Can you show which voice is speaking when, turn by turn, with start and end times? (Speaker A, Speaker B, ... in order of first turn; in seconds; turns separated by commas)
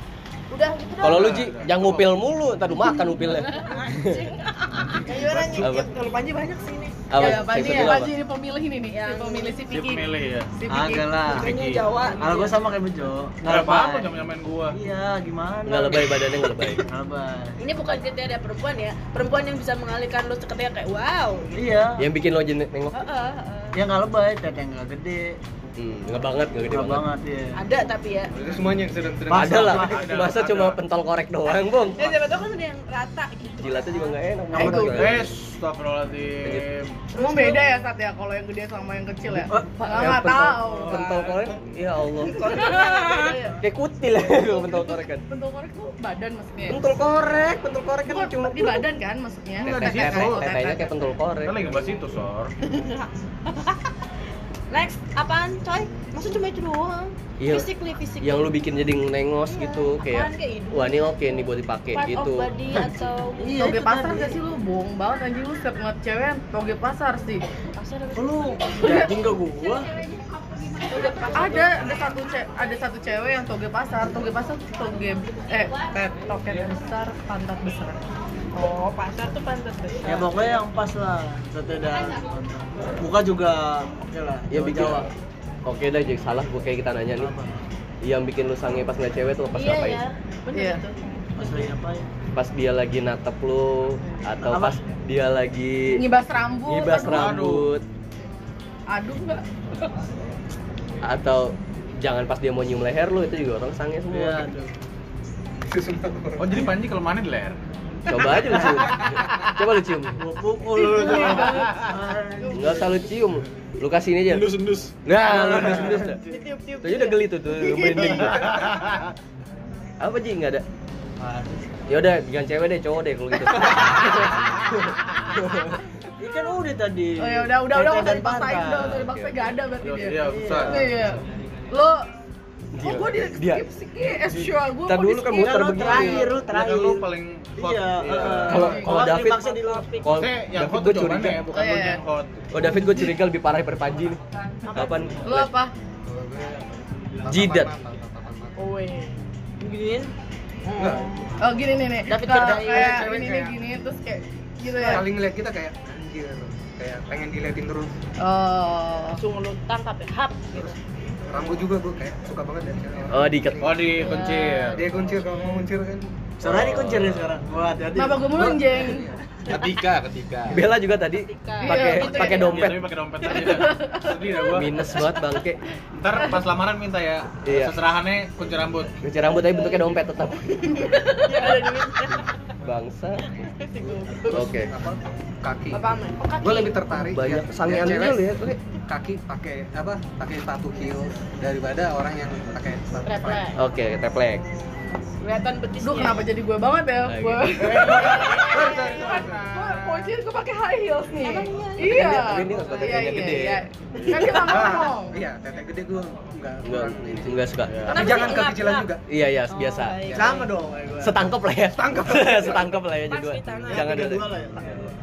Speaker A: 0.5-1.4, Speaker B: 1.0-4.3, Speaker C: 1.0-2.2, Speaker A: 3.6-7.0, Speaker C: 4.7-5.7, Speaker B: 5.6-5.9, Speaker B: 7.1-8.1, Speaker D: 7.2-11.2, Speaker E: 7.6-7.9, Speaker A: 8.9-9.6, Speaker C: 9.7-10.5, Speaker E: 10.7-11.6, Speaker A: 11.3-12.6, Speaker C: 11.3-11.9, Speaker E: 12.2-14.1, Speaker C: 13.4-14.8, Speaker E: 14.7-17.6, Speaker B: 15.7-16.9, Speaker A: 17.6-21.5, Speaker E: 21.6-22.1, Speaker B: 22.0-23.0, Speaker A: 22.9-23.8, Speaker E: 23.8-25.4, Speaker B: 25.8-27.1, Speaker E: 26.7-27.6, Speaker A: 27.6-28.3, Speaker F: 28.4-29.9, Speaker E: 29.3-30.3, Speaker B: 29.3-32.1, Speaker C: 29.8-30.8, Speaker A: 31.9-34.7, Speaker B: 33.6-35.3, Speaker E: 34.5-35.3, Speaker C: 34.8-36.9, Speaker D: 37.1-41.1, Speaker A: 37.2-37.6, Speaker E: 39.3-39.7, Speaker B: 39.9-42.7, Speaker A: 40.8-41.3, Speaker D: 42.4-43.4, Speaker A: 42.4-43.6, Speaker B: 43.6-45.2, Speaker D: 44.3-46.8, Speaker B: 46.7-48.8, Speaker D: 48.1-51.0, Speaker C: 49.6-50.5, Speaker B: 49.6-51.6, Speaker C: 51.4-52.5, Speaker A: 52.7-53.8, Speaker A: 54.7-58.6, Speaker B: 57.4-57.7, Speaker B: 58.2-62.5, Speaker A: 59.5-63.8, Speaker D: 63.4-67.4, Speaker E: 63.5-64.3, Speaker A: 67.8-69.1, Speaker E: 68.2-69.9, Speaker D: 68.8-69.1, Speaker A: 70.8-71.9, Speaker D: 71.3-78.0, Speaker A: 78.5-80.6, Speaker E: 80.0-85.0, Speaker B: 84.5-85.1, Speaker B: 85.7-87.3, Speaker E: 87.2-87.5, Speaker B: 88.0-90.0, Speaker A: 89.5-91.7, Speaker D: 90.5-90.8, Speaker E: 91.4-92.1, Speaker B: 92.3-96.0, Speaker E: 94.4-94.8, Speaker D: 95.9-97.4, Speaker B: 96.7-97.8, Speaker C: 96.9-97.7, Speaker D: 98.9-99.4, Speaker B: 101.0-104.5, Speaker E: 104.1-104.7, Speaker F: 105.7-106.8, Speaker C: 106.4-107.6, Speaker B: 108.1-110.2, Speaker F: 108.3-108.8, Speaker E: 110.2-113.0, Speaker A: 110.8-111.7, Speaker D: 111.1-111.6, Speaker B: 112.5-116.2, Speaker F: 114.3-116.0, Speaker E: 115.2-116.5, Speaker A: 116.1-117.3, Speaker B: 116.8-118.5, Speaker E: 117.9-118.3, Speaker F: 118.0-118.2, Speaker B: 120.0-120.6, Speaker E: 121.2-121.5, Speaker B: 121.9-125.8, Speaker E: 126.2-129.0, Speaker D: 127.2-131.2, Speaker B: 128.9-129.4, Speaker C: 129.8-131.0, Speaker E: 130.2-130.9, Speaker D: 131.7-132.1, Speaker B: 132.7-133.6, Speaker D: 132.8-136.3, Speaker B: 134.8-136.4, Speaker E: 135.4-140.0, Speaker C: 136.4-138.7, Speaker D: 138.2-138.9, Speaker B: 138.4-139.5, Speaker A: 139.2-140.1, Speaker B: 140.0-141.4, Speaker C: 140.1-142.5, Speaker D: 141.5-142.0, Speaker B: 142.5-144.2, Speaker A: 144.7-145.1, Speaker B: 144.7-145.5, Speaker D: 145.2-145.7, Speaker F: 146.1-148.6, Speaker B: 147.2-147.8, Speaker A: 148.6-150.1, Speaker A: 150.7-151.3, Speaker F: 150.8-151.1, Speaker D: 151.4-155.1, Speaker E: 152.1-153.0, Speaker A: 152.3-153.0, Speaker F: 152.6-153.5, Speaker A: 154.8-155.1, Speaker F: 154.9-157.9, Speaker D: 158.2-159.2, Speaker A: 159.2-160.7, Speaker F: 161.3-163.6, Speaker B: 163.1-164.0, Speaker C: 163.6-165.1, Speaker D: 164.0-164.7, Speaker F: 164.7-166.6, Speaker E: 166.4-168.9, Speaker B: 166.5-167.4, Speaker D: 167.9-169.1, Speaker F: 169.5-170.6, Speaker B: 170.5-173.0, Speaker A: 171.1-172.7, Speaker D: 171.6-172.6, Speaker C: 172.4-174.9, Speaker D: 173.2-174.5, Speaker B: 174.5-175.6, Speaker C: 176.0-179.0, Speaker B: 177.4-177.8, Speaker B: 179.0-181.0, Speaker A: 179.4-179.8, Speaker A: 180.8-182.2, Speaker B: 182.6-183.2, Speaker A: 183.6-184.4, Speaker F: 183.8-185.8, Speaker B: 184.3-184.7, Speaker A: 185.7-186.9, Speaker F: 186.4-188.2, Speaker B: 186.9-188.6, Speaker F: 188.9-193.4, Speaker D: 193.1-193.6, Speaker B: 193.6-194.4, Speaker A: 195.2-196.3, Speaker D: 195.8-205.2, Speaker B: 197.1-197.6, Speaker C: 197.7-200.1, Speaker F: 197.7-199.3, Speaker A: 197.8-198.8, Speaker A: 201.1-203.0, Speaker B: 201.8-203.6, Speaker F: 204.4-207.3, Speaker B: 206.6-208.0, Speaker C: 207.6-208.1, Speaker F: 207.9-209.0, Speaker A: 207.9-210.5, Speaker B: 209.1-210.2, Speaker F: 210.1-210.7, Speaker E: 210.2-211.1, Speaker B: 211.0-214.3, Speaker F: 211.8-212.6, Speaker A: 213.1-213.9, Speaker E: 213.7-214.9